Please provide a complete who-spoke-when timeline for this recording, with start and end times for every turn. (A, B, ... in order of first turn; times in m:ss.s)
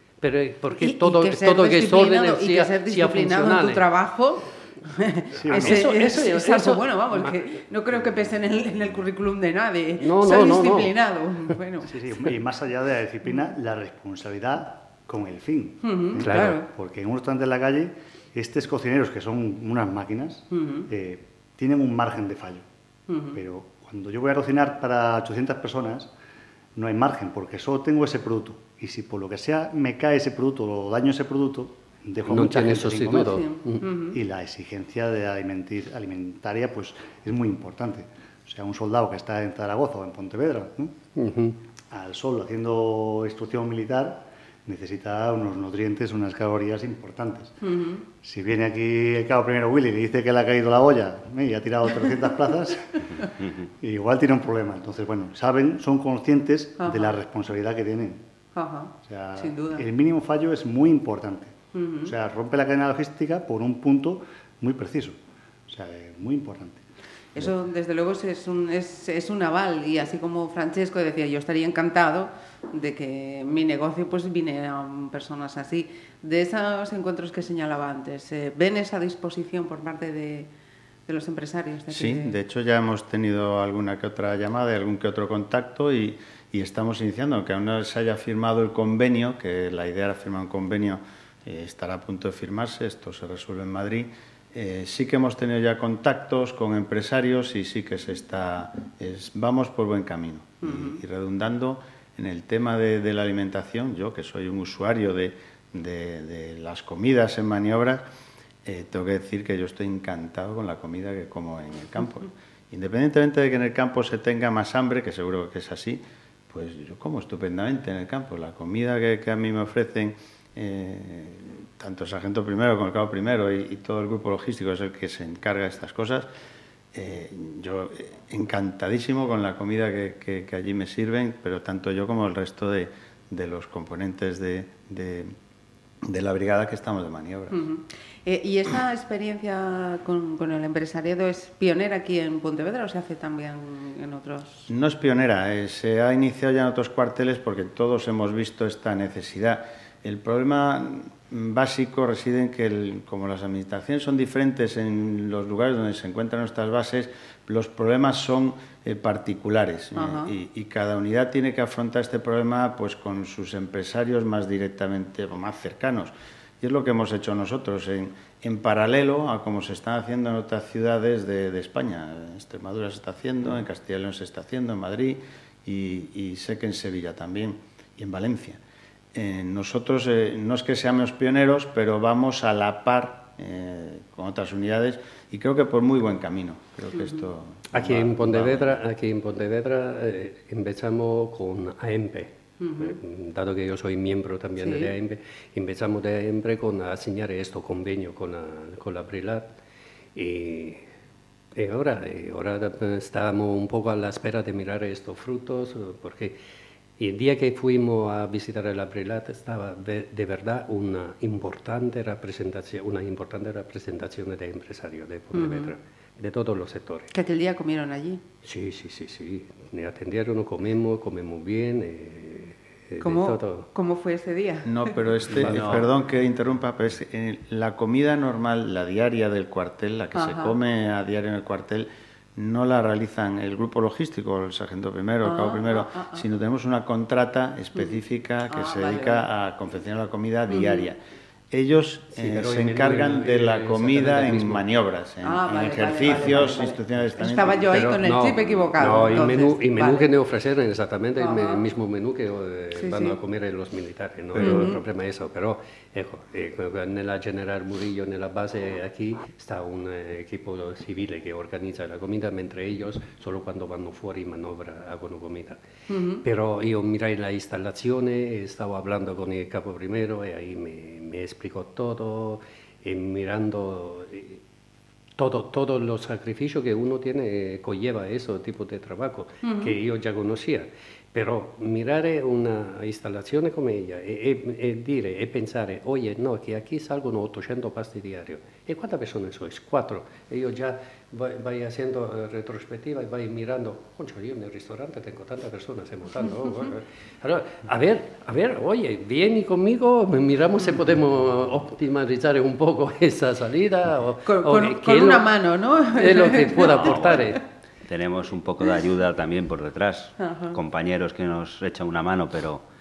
0:00.2-0:03.8 A
0:00.7-0:12.0 B
0:05.3-0:05.9 C
0:05.5-0:07.6 A
0:10.0-0:10.9 A
0:11.9-0:22.6 C
0:15.8-0:16.7 B
0:16.2-0:16.6 A
0:20.5-0:20.9 B
0:23.1-0:23.4 B
0:23.3-0:26.1 C
0:26.8-0:41.0 C
0:32.3-0:33.8 A
0:33.2-0:34.2 B
0:41.2-0:41.6 A
0:41.9-0:47.6 C
0:47.6-0:48.1 B
0:48.2-0:58.2 C
0:56.8-0:57.2 B
0:58.6-0:59.8 B
0:59.0-1:06.8 C
1:01.7-1:02.2 B
1:07.4-1:20.5 B
1:21.1-1:22.4 B
1:21.9-1:48.0 D
1:40.6-1:41.0 B
1:48.6-2:06.3 D
2:06.9-2:15.3 D
2:16.0-2:17.6 D
2:17.5-2:24.7 B
2:24.7-2:58.6 D
2:40.0-2:40.3 B
2:59.1-3:08.8 D
3:06.9-3:07.2 B
3:07.7-3:19.5 A
3:12.6-3:13.0 B
3:14.6-3:14.9 B
3:20.2-3:20.9 A
3:21.6-3:26.4 A
3:27.0-3:37.1 A
3:35.3-3:35.7 B
3:37.1-3:38.2 B
3:38.4-3:43.7 A
3:43.0-3:45.0 B
3:44.6-4:01.0 D
3:45.3-3:45.9 A
3:50.2-3:50.6 B
3:55.2-3:56.2 B
3:58.5-3:59.3 B
4:00.5-4:00.9 B
4:01.5-4:07.7 D
4:02.1-4:04.6 A
4:05.2-4:10.1 B
4:07.7-4:25.6 A
4:11.2-4:11.7 B
4:12.8-4:13.2 B
4:14.4-4:14.8 B
4:25.9-4:26.2 B
4:26.2-4:34.4 A
4:35.2-5:05.3 A
4:39.4-4:39.8 B
5:04.3-5:07.3 B
5:05.9-5:07.4 A
5:06.8-5:07.2 E
5:07.9-5:12.6 E
5:10.2-5:10.6 B